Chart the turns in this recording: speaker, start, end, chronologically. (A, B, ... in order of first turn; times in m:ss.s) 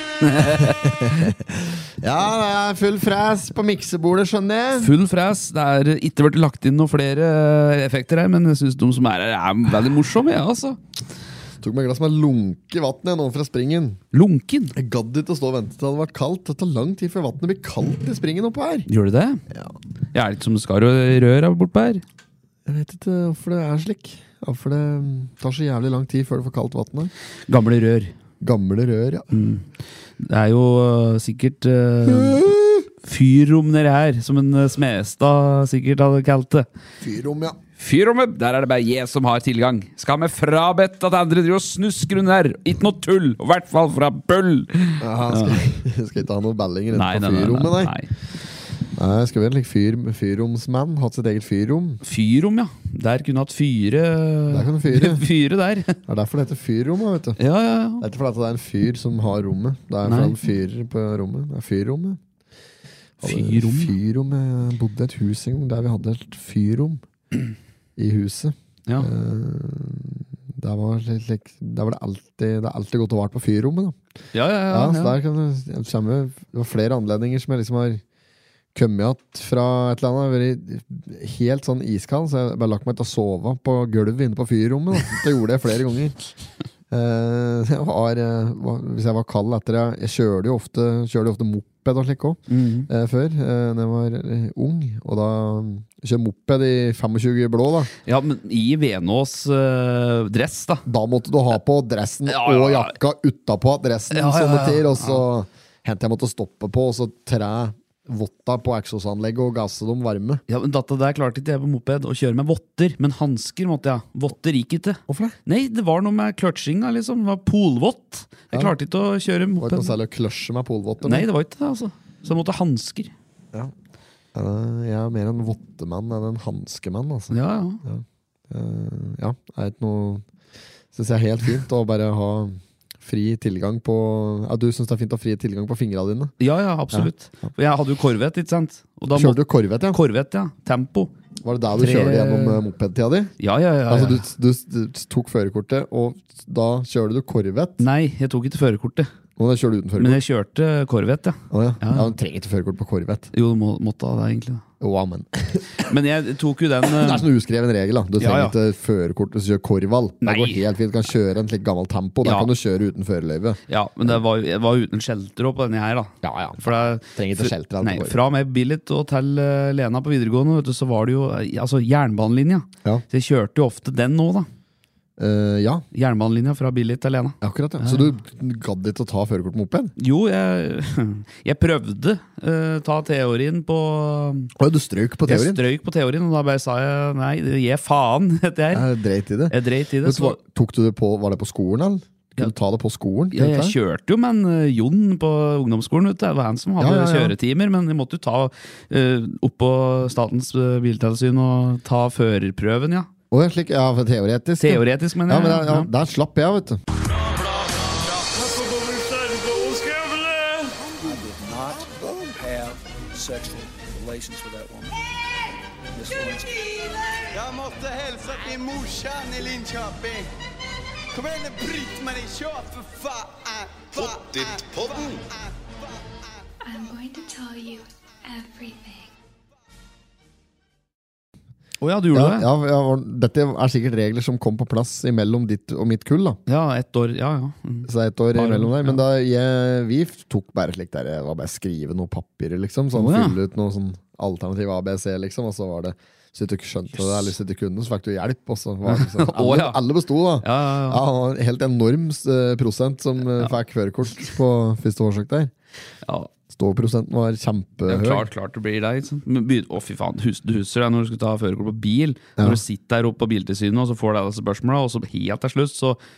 0:00.2-0:01.3 A
0:00.4-0:04.9 B
0:04.8-0:10.8 A
0:11.6-0:14.0 B
0:14.1-0:14.7 A
0:14.7-0:18.9 B
0:18.9-0:19.4 A
0:19.5-0:19.8 B
0:20.1-0:22.0 A
0:22.6-0:27.1 B
0:27.5-0:28.1 A
0:28.4-0:29.3 B
0:29.3-0:32.4 A
0:32.0-0:32.9 B
0:33.0-0:36.7 A
0:37.0-0:37.6 B
0:37.8-0:45.6 A
0:45.0-0:47.9 B
0:46.9-0:48.1 A
0:48.9-0:52.0 B
0:52.0-0:56.0 A
0:54.5-0:55.2 B
0:56.0-0:57.4 B
0:57.4-0:58.0 A
0:58.0-1:02.2 B
1:00.0-1:00.4 A
1:03.2-1:07.0 B
1:03.2-1:03.9 A
1:08.0-1:14.0 B
1:14.3-1:15.2 A
1:14.7-1:18.0 B
1:18.7-1:26.2 B
1:26.9-1:37.9 B
1:32.5-1:32.9 A
1:38.0-1:40.8 A
1:40.8-1:50.4 B
1:42.2-1:42.9 A
1:44.1-1:45.2 A
1:50.5-1:59.9 A
1:55.1-1:55.4 B
1:59.6-2:01.2 B
2:01.0-2:03.1 A
2:04.3-2:10.2 B
2:07.3-2:07.8 A
2:10.9-2:16.3 B
2:16.4-2:19.4 A
2:16.9-2:17.5 B
2:19.1-2:20.0 B
2:19.9-2:21.1 A
2:21.4-2:23.3 B
2:21.8-2:22.6 A
2:23.4-2:24.3 A
2:23.9-2:27.8 B
2:27.8-2:29.1 A
2:29.4-2:30.2 B
2:30.0-2:32.1 A
2:31.5-2:33.3 B
2:33.3-2:34.6 A
2:34.8-2:35.9 B
2:35.8-2:37.3 A
2:36.9-2:43.6 B
2:38.2-2:38.5 A
2:40.2-2:40.6 A
2:42.2-2:42.5 A
2:43.7-2:54.5 A
2:46.2-2:48.2 B
2:55.2-2:55.8 B
2:55.9-2:58.1 A
2:57.4-2:59.9 B
3:00.0-3:04.5 A
3:04.6-3:05.6 B
3:05.3-3:08.8 A
3:08.7-3:13.7 B
3:09.5-3:10.4 A
3:13.3-3:23.1 A
3:16.8-3:17.3 B
3:23.3-3:26.8 B
3:24.6-3:25.9 A
3:28.4-3:29.7 C
3:31.0-3:35.0 D
3:31.9-3:32.3 B
3:35.9-3:36.6 D
3:37.3-3:40.3 C
3:41.1-3:46.0 C
3:46.6-3:49.1 E
3:51.8-3:52.5 A
3:52.1-3:56.4 B
3:56.5-3:59.0 A
3:57.9-4:15.5 B
4:02.9-4:03.4 A
4:08.8-4:09.8 A
4:10.4-4:11.0 A
4:16.0-4:16.3 A
4:16.5-4:18.3 B
4:17.8-4:26.0 A